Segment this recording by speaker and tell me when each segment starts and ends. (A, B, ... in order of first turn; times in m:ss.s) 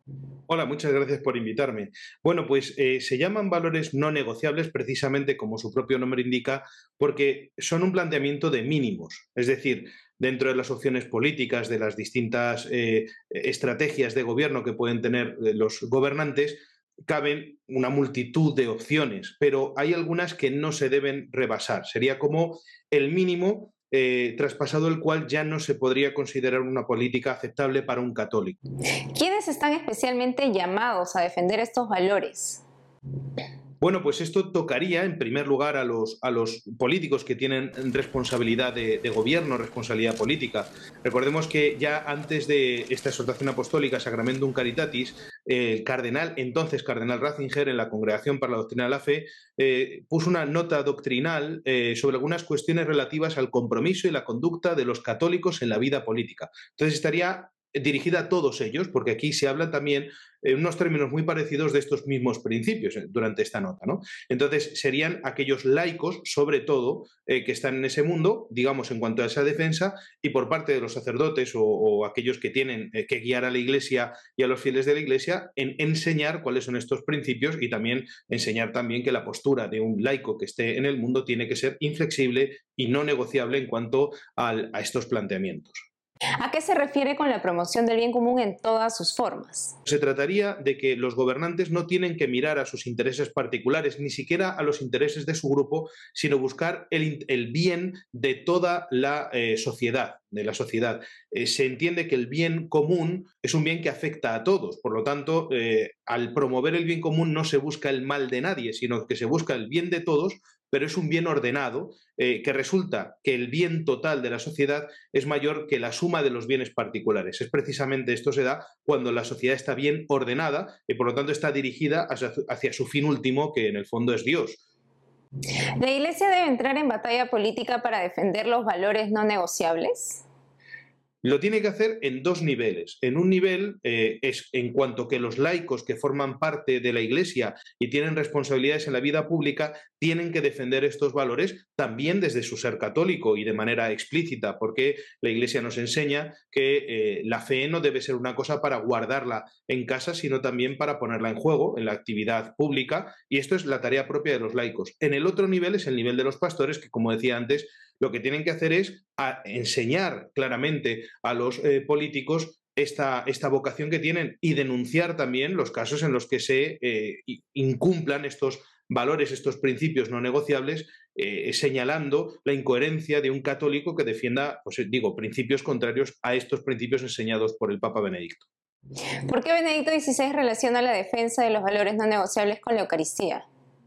0:00.5-0:28.6 A
0:29.1-0:32.6 B
0:33.8-1:25.8 A
1:26.4-1:29.7 B
1:29.8-2:04.6 A
2:05.8-2:10.2 B
2:11.2-2:58.4 A
2:59.2-3:03.4 B